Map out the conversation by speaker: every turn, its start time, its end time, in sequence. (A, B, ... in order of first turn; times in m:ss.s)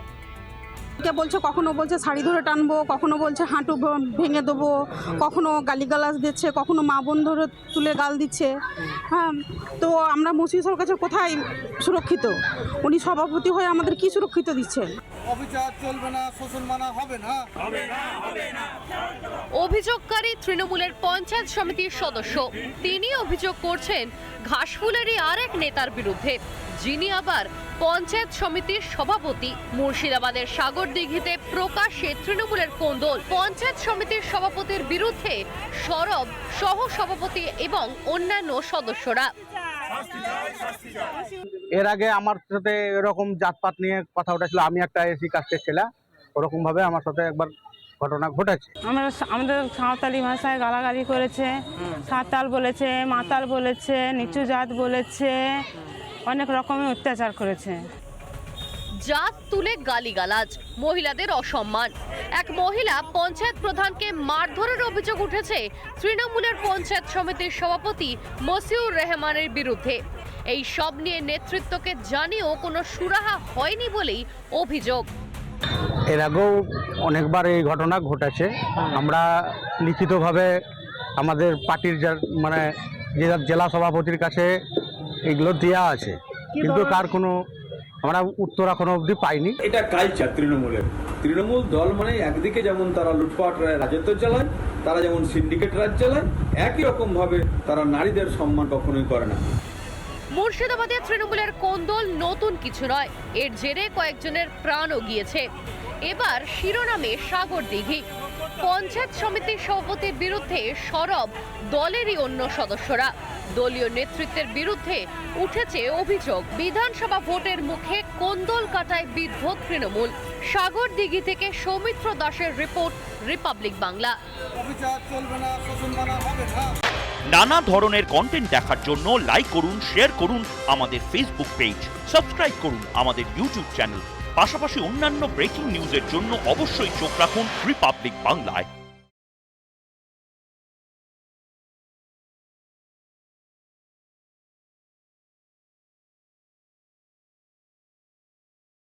0:01.0-0:14.9 A
0:15.3-0:17.6 B
0:19.5-0:39.3 C
0:41.8-0:48.7 D
0:48.8-0:55.7 E
0:56.2-0:57.9 E
0:59.0-1:10.0 C
1:10.5-1:15.0 C
1:16.1-1:16.5 D
1:17.1-1:20.5 D
1:21.2-1:22.6 D
1:23.2-1:24.5 D
1:25.3-1:27.3 D
1:28.0-1:29.6 D
1:29.6-1:39.4 F
1:40.3-1:45.5 C
1:46.0-1:48.0 C
1:48.6-2:04.2 C
2:04.6-2:06.7 B
2:07.3-2:18.7 G